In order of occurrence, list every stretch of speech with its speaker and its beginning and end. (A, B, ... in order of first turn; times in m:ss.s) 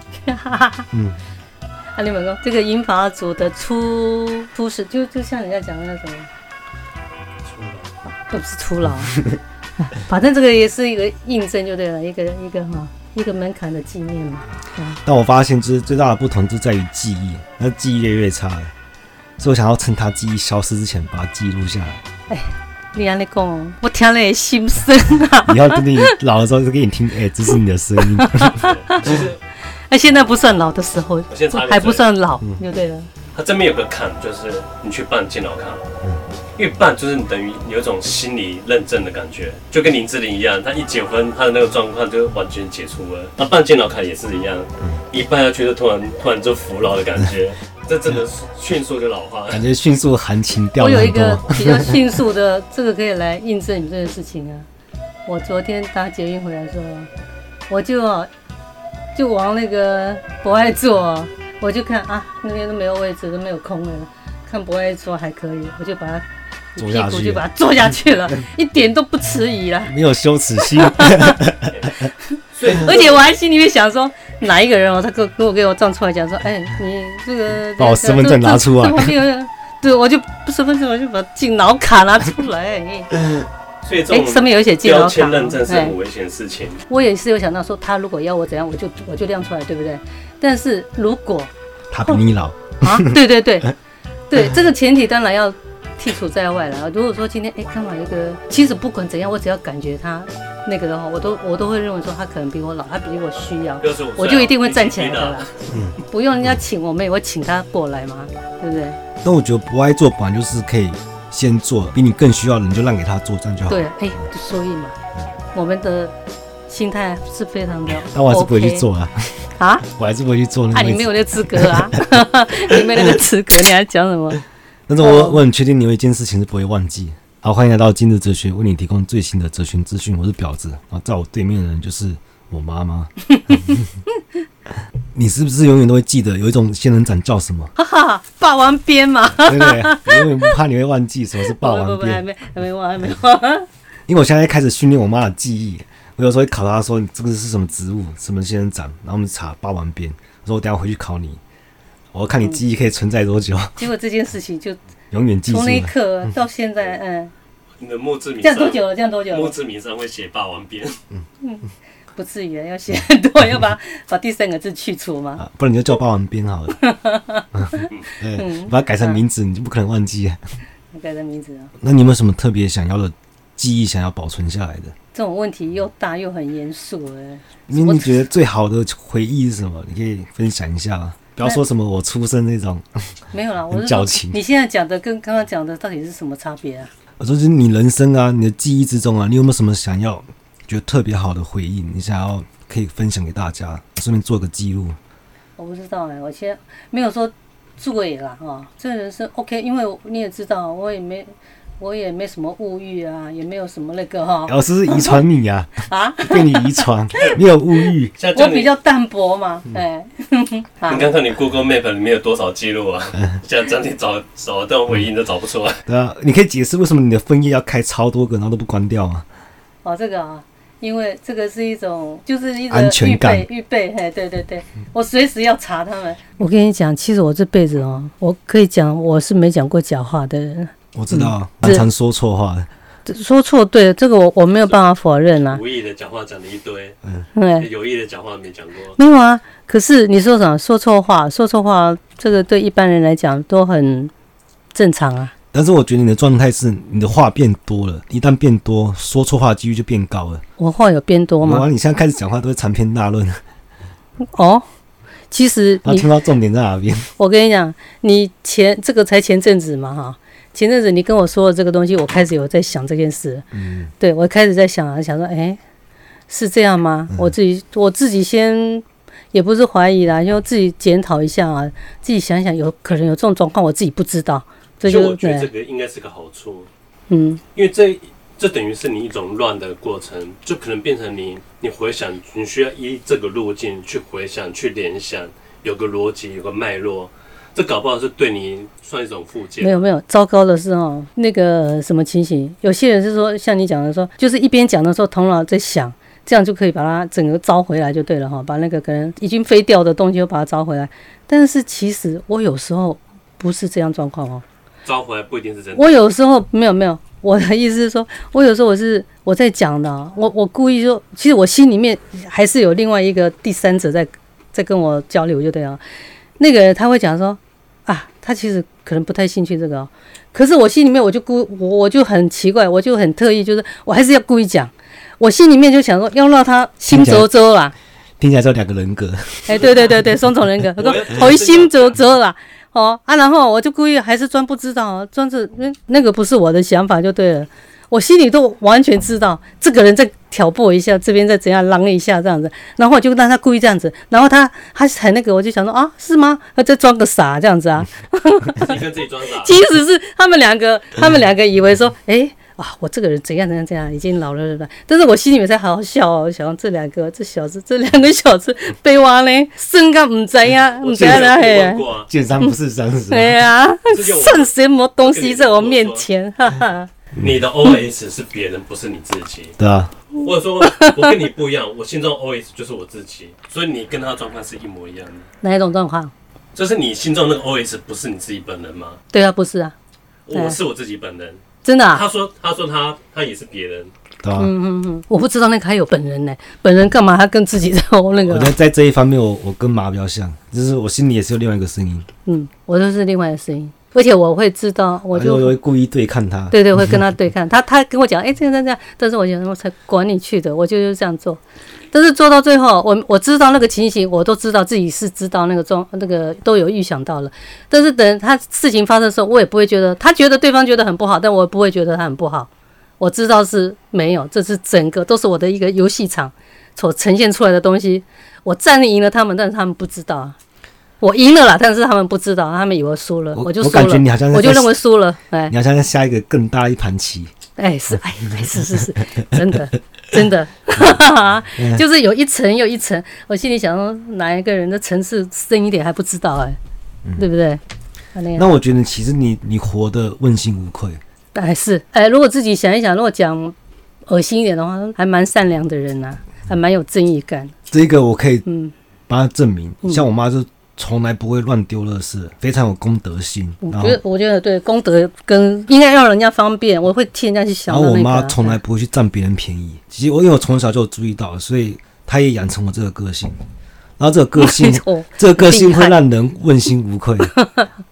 0:00.2-0:00.9 A
0:00.9-0:01.2 B
0:02.0-0:06.3 A
0:07.4-0:07.9 C
0:08.3-0:09.2 A
0:09.8-0:15.0 A
0:15.0-0:18.7 B
0:19.4-0:22.0 B
0:22.3-0:26.1 A
0:25.5-0:28.5 B
0:28.0-0:29.2 A
0:28.4-0:29.4 C
0:29.9-0:33.1 A
0:31.3-0:32.1 C
0:33.3-0:35.8 C
0:36.6-0:49.6 C
0:49.5-0:52.0 B
0:50.8-0:54.7 A
0:55.2-0:57.1 A
0:57.7-0:58.3 A
0:59.1-1:09.9 A
1:06.8-1:07.5 B
1:09.9-1:12.1 B
1:10.6-1:11.4 A
1:11.7-1:12.0 C
1:12.5-1:13.2 C
1:12.7-1:23.1 A
1:17.8-1:19.2 B
1:23.8-1:26.8 C
1:24.1-1:26.0 A
1:26.9-1:31.5 A
1:31.9-1:33.2 B
1:32.8-1:33.7 A
1:34.3-1:45.5 A
1:43.8-1:45.5 C
1:45.7-1:46.0 B
1:46.0-1:49.0 A
1:49.2-1:53.9 B
1:53.7-1:55.0 A
1:55.5-1:56.1 A
1:56.7-1:58.9 A
1:58.1-2:02.0 B
1:59.6-1:59.8 A
2:00.7-2:04.4 A
2:04.9-2:13.8 B
2:05.0-2:05.4 A
2:13.3-2:13.8 A
2:15.1-2:17.7 B
2:17.8-2:20.5 A
2:19.4-2:22.2 B
2:21.5-2:23.6 A
2:24.1-2:31.4 B
2:32.1-2:33.8 B
2:33.8-2:34.8 A
2:35.1-2:35.9 B
2:35.5-2:37.3 A
2:37.8-2:41.0 C
2:38.4-2:39.5 A
2:41.4-2:45.4 A
2:45.4-2:46.8 B
2:46.8-2:49.2 A
2:47.5-2:50.4 B
2:50.9-2:51.7 A
2:51.8-2:54.9 B
2:55.1-2:58.2 A
2:57.7-3:02.8 B
3:03.3-3:06.9 A
3:03.7-3:04.4 B
3:07.2-3:15.0 B
3:15.6-3:25.2 A
3:24.5-3:28.1 B
3:25.9-3:26.9 A
3:28.2-3:28.7 C
3:28.3-3:31.1 A
3:30.9-3:35.8 C
3:35.9-3:39.2 B
3:39.8-3:51.8 A
3:42.7-3:43.4 B
3:50.9-3:52.7 B
3:53.1-3:55.6 A
3:55.5-3:57.0 C
3:57.3-3:57.7 A
3:57.6-3:59.0 C
3:59.0-4:04.1 A
4:04.7-4:05.3 A
4:05.5-4:10.4 B
4:10.6-4:11.6 A
4:11.4-4:13.4 B
4:14.3-4:14.6 A
4:15.3-4:16.1 A
4:15.8-4:17.1 B
4:17.2-4:23.4 A
4:23.5-4:23.9 B
4:24.0-4:25.6 A
4:26.3-4:35.5 A
4:34.8-4:36.7 C
4:37.1-4:37.4 A
4:37.5-4:49.8 C
4:49.6-5:04.4 A
5:04.8-5:06.0 C
5:05.8-5:15.8 A
5:16.4-5:27.7 A
5:26.9-5:27.3 B
5:28.2-5:29.7 B
5:29.5-5:48.8 A
5:30.8-5:32.0 C
5:48.6-5:49.6 C
5:49.3-6:01.8 A
6:00.8-6:02.1 C
6:02.1-6:03.4 B
6:03.1-6:06.9 A
6:03.9-6:06.1 C
6:07.2-6:09.6 C
6:09.6-6:09.9 B
6:10.2-6:15.3 C
6:10.6-6:11.1 A
6:15.4-6:16.1 A
6:16.5-6:19.0 C
6:19.1-6:19.7 A
6:20.3-6:23.9 C
6:20.3-6:20.6 A
6:21.6-6:22.0 A
6:24.2-6:24.5 B
6:24.4-6:28.5 A
6:28.2-6:32.1 B
6:32.2-6:35.6 A
6:35.1-6:37.0 B
6:36.5-6:52.5 A
6:53.0-7:00.4 A
7:01.0-7:05.5 A
7:03.3-7:04.8 B
7:05.5-7:07.3 B
7:07.6-7:16.6 A
7:11.6-7:11.8 B
7:17.2-7:17.6 A
7:18.1-7:18.4 A
7:18.4-7:21.0 B
7:21.3-7:23.5 A
7:24.1-7:27.5 A
7:27.7-7:28.4 B
7:28.4-7:28.7 A
7:29.1-7:34.0 B
7:33.6-7:38.6 A
7:37.7-7:43.4 B
7:44.0-7:47.3 B
7:44.4-7:46.0 A
7:47.3-7:47.7 A